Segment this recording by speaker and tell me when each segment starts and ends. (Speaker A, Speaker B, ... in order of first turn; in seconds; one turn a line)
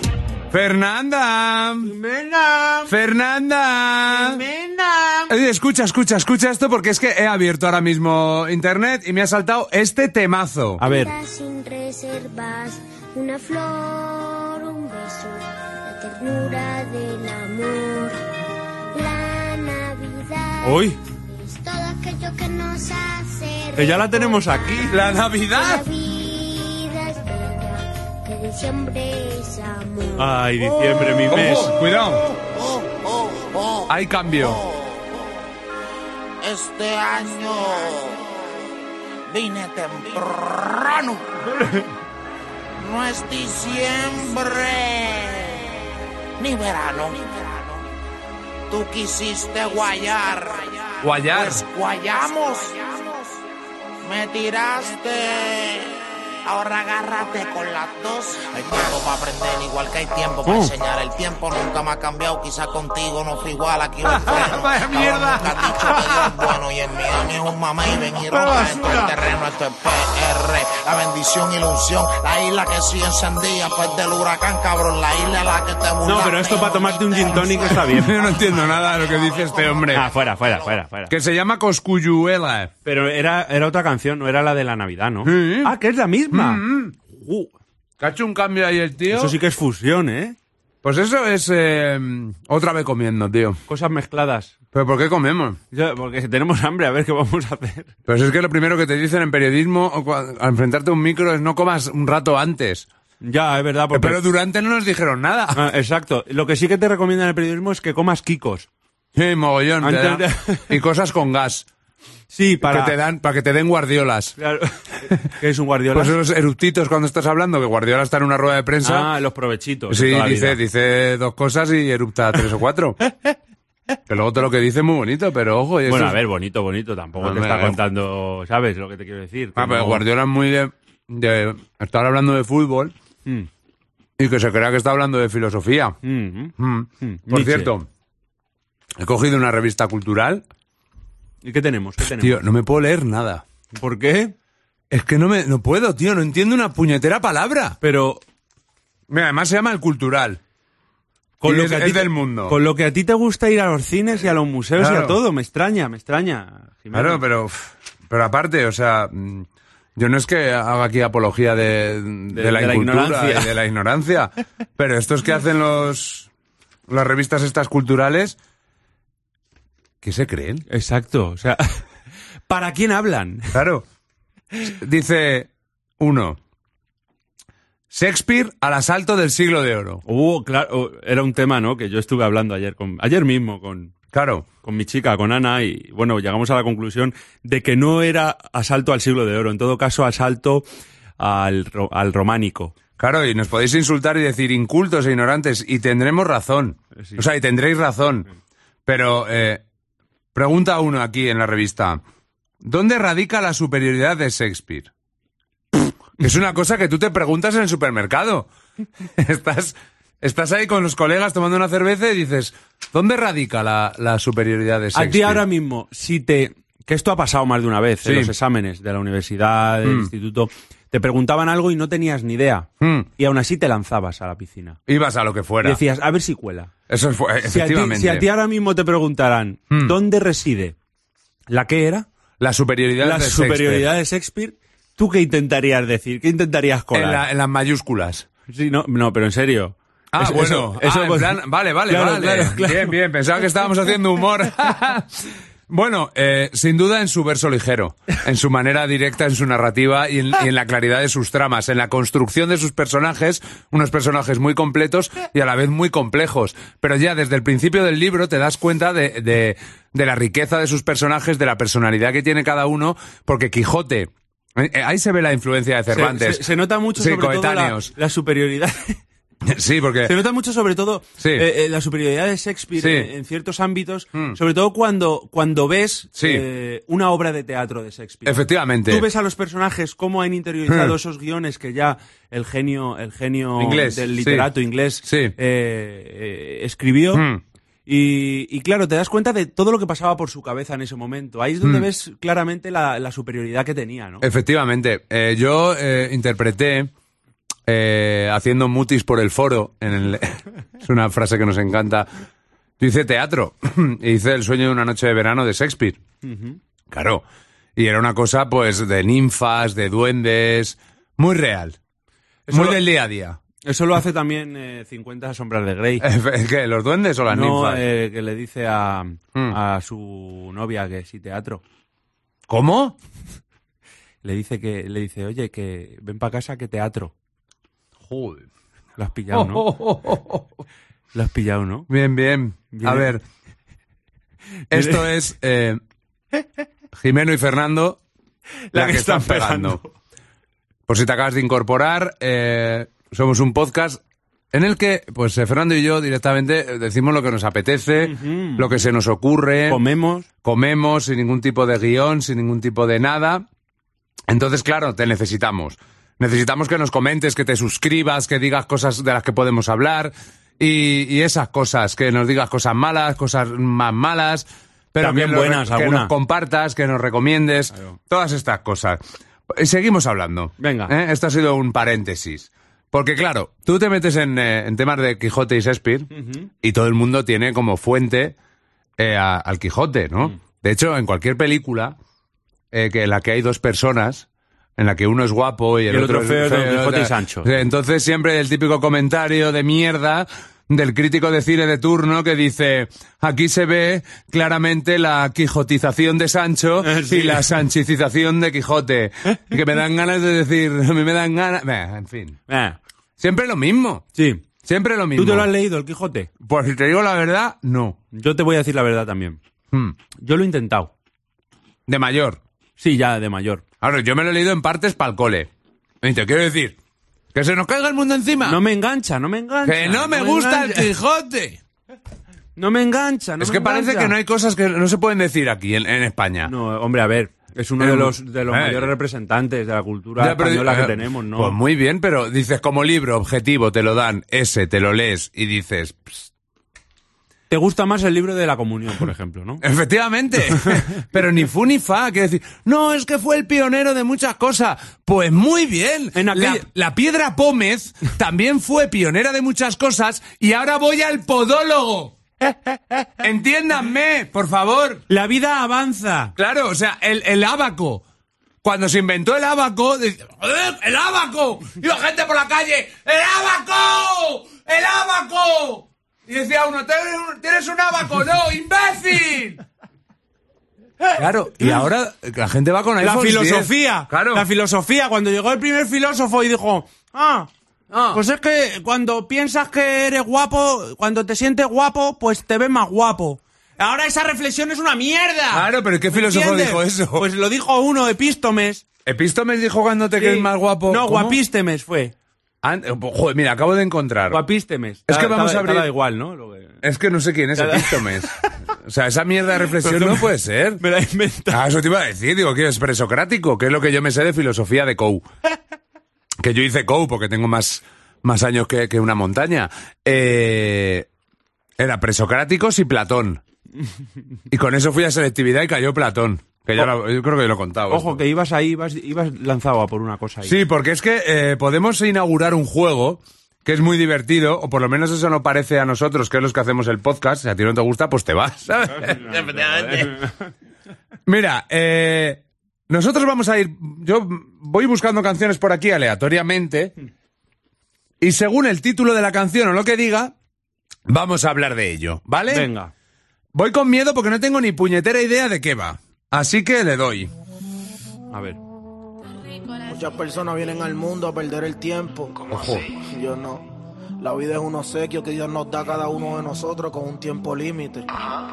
Speaker A: 0.5-1.9
Speaker B: 1.8-2.9
Speaker A: 2.9-4.4
Speaker B: 4.1-5.3
Speaker A: 5.3-10.8
Speaker B: 10.8-11.2
Speaker C: 10.8-18.2
Speaker C: 18.9-30.6
Speaker B: 20.6-21.0
Speaker B: 23.7-25.0
Speaker A: 24.9-25.9
Speaker B: 30.2-31.7
Speaker A: 31.3-32.3
Speaker D: 32.3-35.4
Speaker A: 33.9-34.6
Speaker D: 36.4-38.7
Speaker D: 39.3-41.5
Speaker D: 42.8-47.8
Speaker D: 48.7-53.2
Speaker A: 51.0-51.6
Speaker D: 54.0-80.7
Speaker B: 60.4-60.7
Speaker A: 64.0-66.6
Speaker A: 68.3-69.2
Speaker B: 76.0-78.1
Speaker A: 77.9-80.0
Speaker B: 79.9-81.1
Speaker A: 81.1-82.7
Speaker B: 82.8-87.5
Speaker A: 85.2-85.7
Speaker A: 86.3-86.9
Speaker A: 88.0-89.3
Speaker B: 89.1-90.4
Speaker A: 90.8-93.6
Speaker B: 93.7-94.5
Speaker A: 94.7-95.6
Speaker B: 95.7-97.9
Speaker A: 98.1-102.8
Speaker B: 103.2-104.2
Speaker A: 103.9-105.7
Speaker B: 105.5-108.7
Speaker A: 109.1-111.7
Speaker B: 109.8-110.7
Speaker B: 112.3-113.0
Speaker A: 112.6-114.3
Speaker B: 114.4-116.2
Speaker A: 115.9-119.1
Speaker B: 118.8-120.6
Speaker A: 119.9-123.0
Speaker A: 124.1-126.2
Speaker B: 125.8-130.0
Speaker A: 127.2-127.8
Speaker A: 129.6-132.9
Speaker A: 134.2-136.0
Speaker B: 136.0-137.7
Speaker A: 136.6-137.9
Speaker A: 139.0-140.4
Speaker B: 141.4-142.4
Speaker A: 142.2-143.4
Speaker B: 143.7-144.3
Speaker A: 144.9-147.8
Speaker B: 147.8-148.2
Speaker A: 149.1-150.4
Speaker B: 151.4-157.2
Speaker A: 151.4-152.6
Speaker A: 154.8-155.2
Speaker A: 156.9-166.3
Speaker B: 162.3-163.5
Speaker A: 166.9-168.4
Speaker A: 170.0-170.7
Speaker B: 170.7-171.8
Speaker B: 172.5-173.5
Speaker A: 173.5-173.8
Speaker A: 174.6-175.5
Speaker A: 176.0-176.4
Speaker A: 177.9-180.0
Speaker B: 180.0-183.9
Speaker A: 184.1-184.4
Speaker B: 184.6-190.7
Speaker B: 191.2-192.7
Speaker A: 193.0-198.3
Speaker A: 198.8-199.6
Speaker A: 200.3-202.0
Speaker A: 202.6-204.9
Speaker A: 205.7-208.5
Speaker A: 209.0-215.4
Speaker B: 214.9-224.8
Speaker A: 218.0-218.3
Speaker A: 219.8-220.1
Speaker A: 222.8-223.1
Speaker A: 224.9-225.8
Speaker B: 225.6-226.7
Speaker A: 226.9-228.3
Speaker B: 227.5-230.7
Speaker A: 229.7-230.0
Speaker B: 231.5-232.1
Speaker A: 232.4-233.9
Speaker B: 233.0-237.2
Speaker A: 236.9-238.3
Speaker B: 238.5-242.9
Speaker A: 240.1-267.9
Speaker B: 265.9-269.0
Speaker A: 269.4-270.1
Speaker B: 270.0-287.2
Speaker A: 271.2-271.5
Speaker A: 272.8-273.1
Speaker A: 276.2-276.4
Speaker A: 278.2-279.1
Speaker A: 280.7-280.9
Speaker A: 283.6-284.5
Speaker A: 285.0-285.3
Speaker A: 287.1-287.4
Speaker B: 287.9-294.2
Speaker A: 291.6-291.9
Speaker A: 294.2-296.9
Speaker A: 297.7-302.1
Speaker A: 302.8-306.0
Speaker B: 306.2-306.6
Speaker A: 306.9-307.2
Speaker A: 307.8-311.8
Speaker B: 312.5-312.8
Speaker A: 312.5-313.4
Speaker B: 313.6-316.0
Speaker A: 316.0-317.9
Speaker B: 317.3-321.6
Speaker A: 322.5-322.9
Speaker B: 324.2-327.1
Speaker A: 328.1-328.5
Speaker B: 329.0-329.6
Speaker A: 329.3-330.5
Speaker B: 331.1-331.9
Speaker A: 331.9-333.2
Speaker B: 332.7-333.1
Speaker A: 334.7-335.8
Speaker B: 334.7-335.1
Speaker A: 337.0-338.0
Speaker B: 338.7-339.9
Speaker A: 338.7-339.8
Speaker A: 340.9-344.0
Speaker A: 344.5-349.8
Speaker B: 348.0-348.8
Speaker B: 349.7-350.3
Speaker A: 350.4-353.4
Speaker A: 354.3-369.0
Speaker B: 365.0-366.1
Speaker A: 369.5-376.1
Speaker B: 370.6-370.9
Speaker B: 376.1-376.5
Speaker A: 376.6-378.4
Speaker A: 379.0-381.9
Speaker A: 382.7-384.2
Speaker A: 384.8-402.4
Speaker B: 385.9-387.5
Speaker B: 396.8-397.5
Speaker B: 402.5-402.8
Speaker A: 403.2-404.0
Speaker B: 404.1-404.4
Speaker A: 404.6-405.5
Speaker B: 405.1-406.3
Speaker A: 406.4-408.0
Speaker B: 408.1-409.4
Speaker B: 410.2-410.9
Speaker A: 411.9-412.4
Speaker B: 412.8-413.6
Speaker A: 413.8-415.5
Speaker A: 416.0-416.7
Speaker A: 417.3-418.6
Speaker B: 418.4-420.9
Speaker A: 419.6-421.6
Speaker B: 422.6-424.1
Speaker A: 423.4-426.5
Speaker B: 426.4-431.6
Speaker A: 427.8-428.9
Speaker A: 430.2-436.3
Speaker B: 437.5-439.6
Speaker A: 439.6-452.1
Speaker B: 446.1-446.6
Speaker A: 453.2-455.0
Speaker B: 455.1-456.3
Speaker A: 456.4-458.0
Speaker A: 458.6-469.6
Speaker A: 471.1-474.4
Speaker B: 473.0-477.5
Speaker A: 477.9-478.2
Speaker B: 478.1-488.8
Speaker A: 485.5-487.2
Speaker A: 489.1-491.4
Speaker B: 490.1-492.1
Speaker A: 492.6-494.4
Speaker B: 494.3-496.8
Speaker A: 495.1-495.9
Speaker A: 496.8-498.3
Speaker B: 497.5-498.5
Speaker A: 498.8-500.8
Speaker B: 499.7-501.6
Speaker A: 501.5-505.2
Speaker A: 506.4-511.1
Speaker A: 511.8-513.4
Speaker A: 514.5-518.2
Speaker B: 517.9-520.6
Speaker A: 520.4-529.3
Speaker B: 529.0-530.3
Speaker D: 529.3-530.1
Speaker A: 531.2-536.9
Speaker A: 538.2-540.3
Speaker A: 541.1-542.7
Speaker B: 542.5-542.9
Speaker A: 543.5-547.3
Speaker B: 548.3-548.6
Speaker E: 549.8-553.7
Speaker A: 552.5-552.9
Speaker E: 554.2-558.2